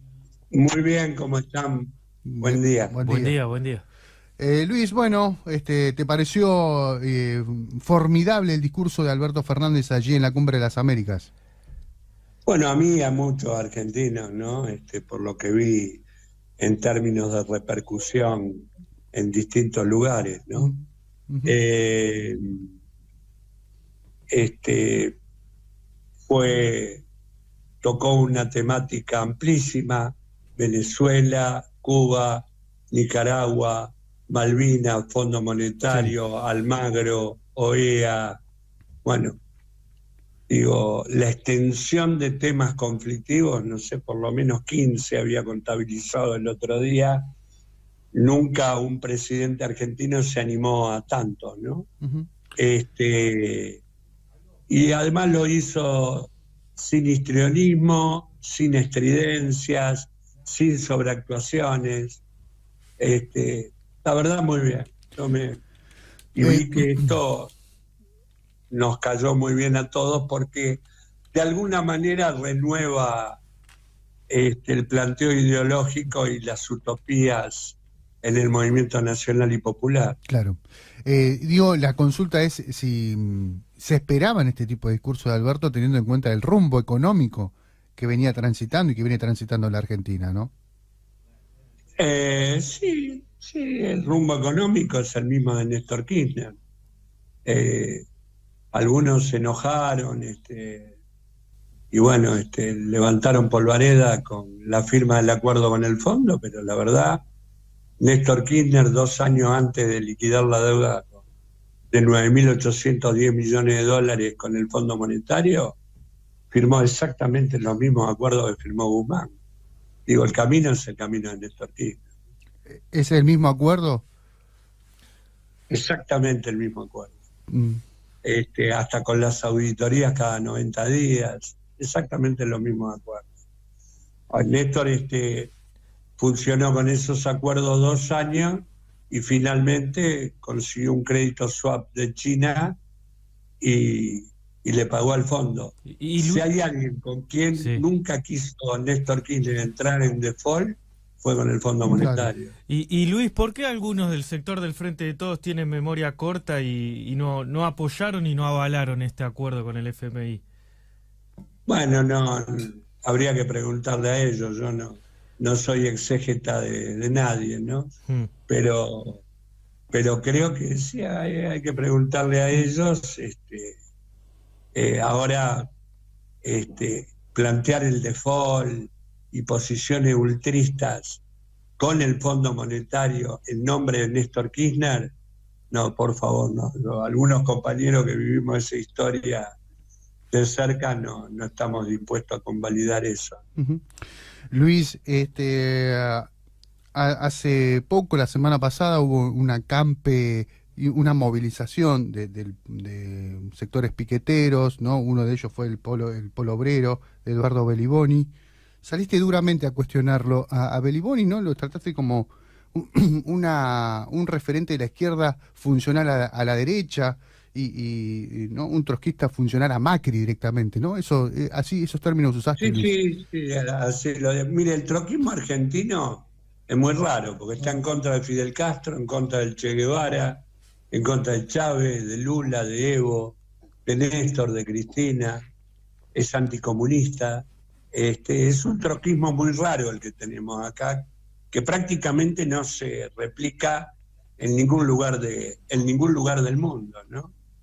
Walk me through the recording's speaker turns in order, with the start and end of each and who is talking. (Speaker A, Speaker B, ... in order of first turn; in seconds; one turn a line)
Speaker A: 0.5-3.0
Speaker B: 2.2-3.4
Speaker C: 3.0-3.8
Speaker B: 4.4-11.3
Speaker A: 12.4-16.0
Speaker A: 16.6-20.7
Speaker B: 20.5-21.6
Speaker A: 21.4-22.7
Speaker A: 24.3-25.2
Speaker A: 26.3-27.1
Speaker A: 27.8-38.4
Speaker B: 35.9-36.2
Speaker A: 39.0-39.4
Speaker A: 40.5-47.3
Speaker A: 48.1-51.9
Speaker A: 52.6-53.8
Speaker A: 54.7-62.2
Speaker A: 63.0-65.6
Speaker A: 66.3-67.5
Speaker B: 66.4-67.0
Speaker A: 68.7-73.4
Speaker A: 74.3-80.2
Speaker B: 80.3-90.5
Speaker A: 92.0-96.6
Speaker A: 97.5-98.1
Speaker A: 98.7-100.9
Speaker A: 101.9-107.3
Speaker A: 108.0-111.2
Speaker A: 111.9-115.8
Speaker A: 116.5-119.3
Speaker A: 120.1-122.0
Speaker B: 122.9-124.0
Speaker A: 125.7-127.2
Speaker B: 127.5-127.8
Speaker A: 128.2-133.3
Speaker A: 134.3-135.5
Speaker A: 136.2-142.8
Speaker A: 143.6-152.5
Speaker C: 145.9-146.5
Speaker C: 147.6-147.8
Speaker B: 151.9-152.3
Speaker C: 152.7-160.4
Speaker A: 161.7-167.9
Speaker A: 168.5-169.2
Speaker A: 169.9-173.8
Speaker A: 174.7-175.7
Speaker A: 176.4-181.2
Speaker A: 181.8-185.2
Speaker A: 185.7-189.6
Speaker A: 190.3-193.4
Speaker B: 193.6-193.9
Speaker B: 194.5-196.3
Speaker B: 196.9-222.9
Speaker A: 222.6-235.5
Speaker A: 236.1-247.3